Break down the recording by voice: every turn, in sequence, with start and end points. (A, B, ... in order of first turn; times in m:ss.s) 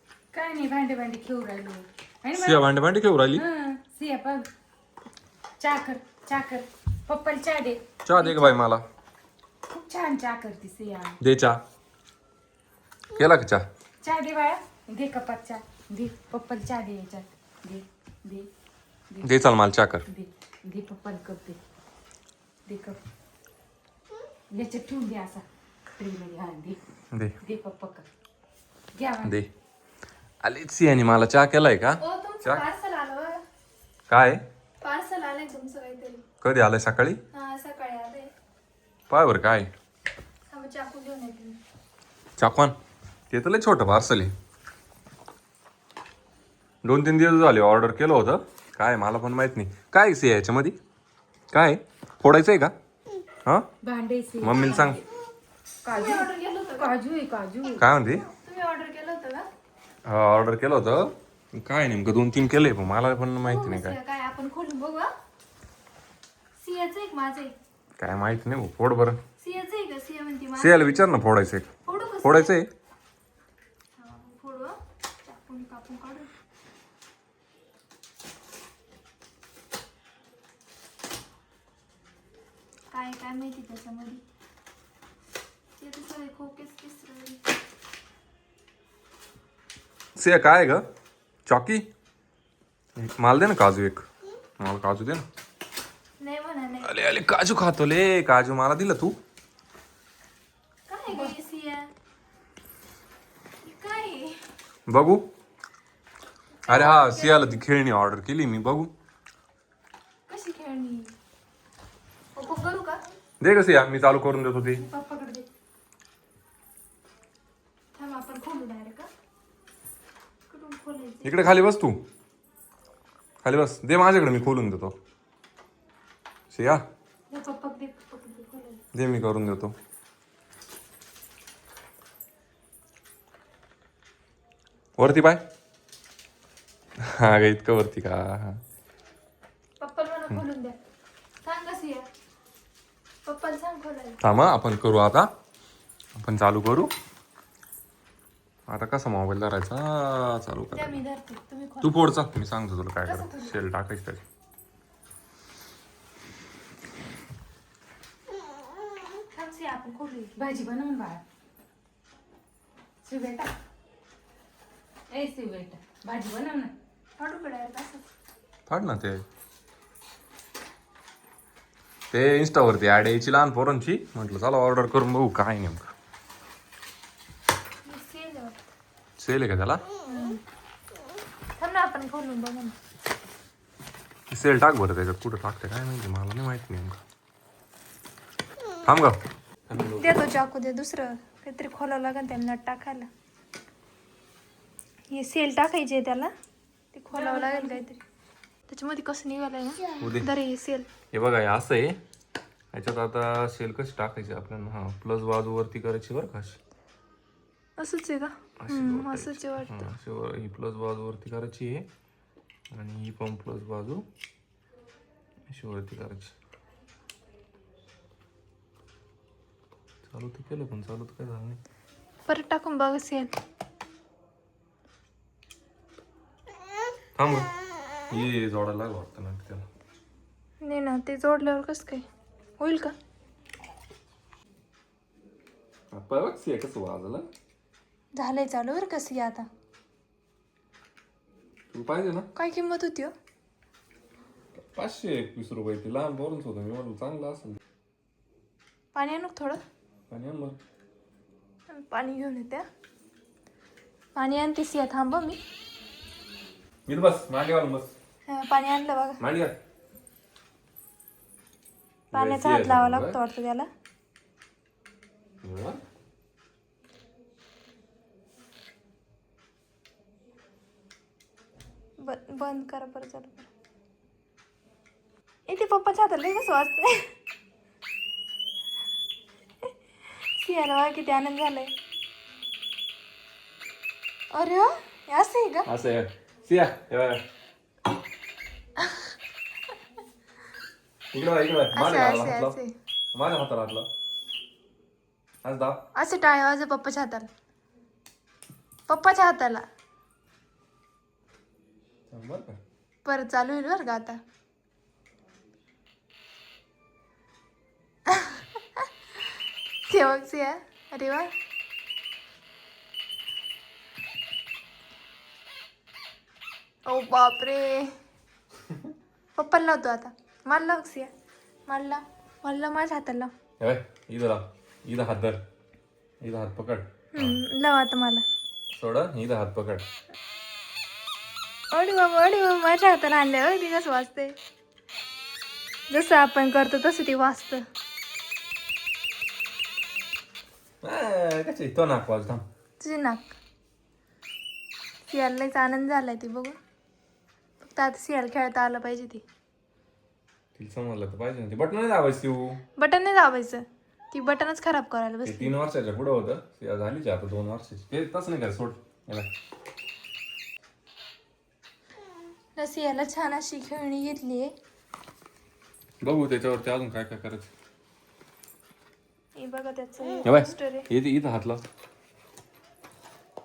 0:00.3-0:02.7 A
0:02.3-0:03.4 B
0:03.3-0:04.5 A
0:05.6-0:08.5 A
0:08.0-0:08.8 B
0:09.7-0:11.2 A
0:11.2-0:11.6 B
0:13.1-0:13.6 B
0:14.0-0:18.5 A
0:19.1-0:19.4 A
0:19.2-0:20.0 B
0:20.0-0:21.6 A
0:22.7-0:23.0 A
0:24.5-0:25.4 A
0:26.0-0:26.8 A
0:27.4-0:28.0 A
0:29.0-0:29.4 A
0:29.2-0:29.5 B
0:30.4-0:32.6 B
0:32.0-0:33.4 C
0:34.1-0:34.4 B
0:34.8-0:36.2 C
0:36.4-0:37.2 B
0:37.3-0:38.3 C
0:39.1-0:39.7 B
0:40.5-0:41.6 C
0:42.4-0:42.8 B
0:43.3-0:44.3 B
0:46.8-0:50.8 B
0:51.5-0:52.7 B
0:53.8-0:55.0 A
0:54.4-0:55.0 B
0:55.8-0:57.8 A
0:55.9-0:57.0 C
0:57.8-0:58.3 B
0:58.0-0:59.5 C
1:00.0-1:04.0 B
1:03.4-1:05.1 C
1:06.6-1:07.6 C
1:08.0-1:09.2 B
1:09.4-1:11.2 C
1:10.6-1:11.7 B
1:11.8-1:12.6 C
1:12.2-1:12.7 B
1:14.0-1:16.3 C
1:22.9-1:24.2 C
1:25.8-1:27.4 C
1:30.2-1:30.8 B
1:31.5-1:31.8 B
1:33.0-1:34.0 B
1:34.6-1:35.3 B
1:36.2-1:37.0 C
1:36.8-1:39.2 B
1:40.9-1:41.9 C
1:43.6-1:44.4 C
1:44.9-1:45.2 B
1:46.6-1:47.6 C
1:46.7-1:48.9 B
1:50.3-1:51.2 C
1:52.4-1:53.0 C
1:53.4-1:54.8 B
1:54.8-1:55.5 C
1:58.0-1:59.1 C
2:00.5-2:01.4 C
2:01.2-2:02.0 B
2:03.4-2:05.0 B
2:06.5-2:06.8 B
2:07.3-2:08.8 C
2:08.9-2:09.8 B
2:15.0-2:15.4 B
2:17.0-2:18.6 B
2:19.8-2:20.8 C
2:21.4-2:22.1 C
2:23.2-2:24.2 C
2:24.2-2:25.3 B
2:26.2-2:26.9 B
2:28.7-2:31.0 B
2:30.7-2:32.2 C
2:31.8-2:34.2 B
2:33.0-2:33.5 C
2:39.3-2:40.4 C
2:40.4-2:41.2 A
2:43.0-2:43.5 A
2:45.1-2:46.7 A
2:47.2-2:48.0 C
2:48.7-2:49.2 B
2:52.1-2:55.9 B
2:57.8-2:58.6 C
2:59.2-2:59.8 B
3:00.0-3:00.4 C
3:01.6-3:02.8 C
3:04.3-3:07.0 B
3:08.8-3:10.2 B
3:10.0-3:13.1 C
3:15.1-3:16.3 C
3:16.9-3:18.0 C
3:17.1-3:17.9 A
3:18.7-3:20.9 C
3:20.0-3:20.3 B
3:21.1-3:22.0 B
3:22.7-3:26.6 B
3:27.8-3:29.9 C
3:28.6-3:31.9 B
3:32.7-3:34.0 B
3:35.5-3:36.3 B
3:40.0-3:41.6 B
3:42.3-3:43.4 C
3:47.2-3:47.5 B
3:48.1-3:49.7 B
3:50.6-3:52.0 C
3:52.6-3:52.9 C
3:55.9-3:57.3 B
3:58.2-3:59.5 C
4:01.7-4:02.3 B
4:02.3-4:03.1 C
4:04.6-4:07.6 B
4:08.9-4:09.6 C
4:10.1-4:10.6 B
4:11.7-4:12.7 C
4:14.2-4:15.4 C
4:16.9-4:17.9 B
4:18.3-4:19.2 C
4:19.2-4:19.6 B
4:22.1-4:23.2 B
4:22.1-4:23.7 C
4:25.4-4:25.8 B
4:32.0-4:33.5 C
4:35.5-4:37.1 C
4:40.4-4:41.7 C
4:44.3-4:45.7 C
4:45.7-4:47.2 B
4:51.1-4:52.6 B
4:51.7-4:52.7 C
4:53.1-4:53.9 B
4:55.4-4:55.8 B
4:55.9-4:57.3 C
4:58.9-4:59.7 C
5:02.1-5:02.6 B
5:03.0-5:04.2 C
5:08.1-5:08.4 C
5:09.9-5:11.3 C
5:16.9-5:17.9 C
5:19.4-5:21.1 C
5:21.7-5:23.3 C
5:23.6-5:25.4 B
5:26.2-5:27.4 B
5:27.1-5:28.2 C
5:28.7-5:29.9 B
5:31.7-5:34.4 C
5:35.9-5:37.6 C
5:40.8-5:42.4 B
5:42.8-5:43.3 C
5:45.1-5:46.6 C
5:47.6-5:49.2 C
5:50.6-5:52.6 B
5:52.8-5:55.6 C
5:55.2-5:59.3 B
6:02.6-6:04.5 C
6:06.0-6:07.5 B
6:09.4-6:10.9 C
6:10.2-6:11.6 B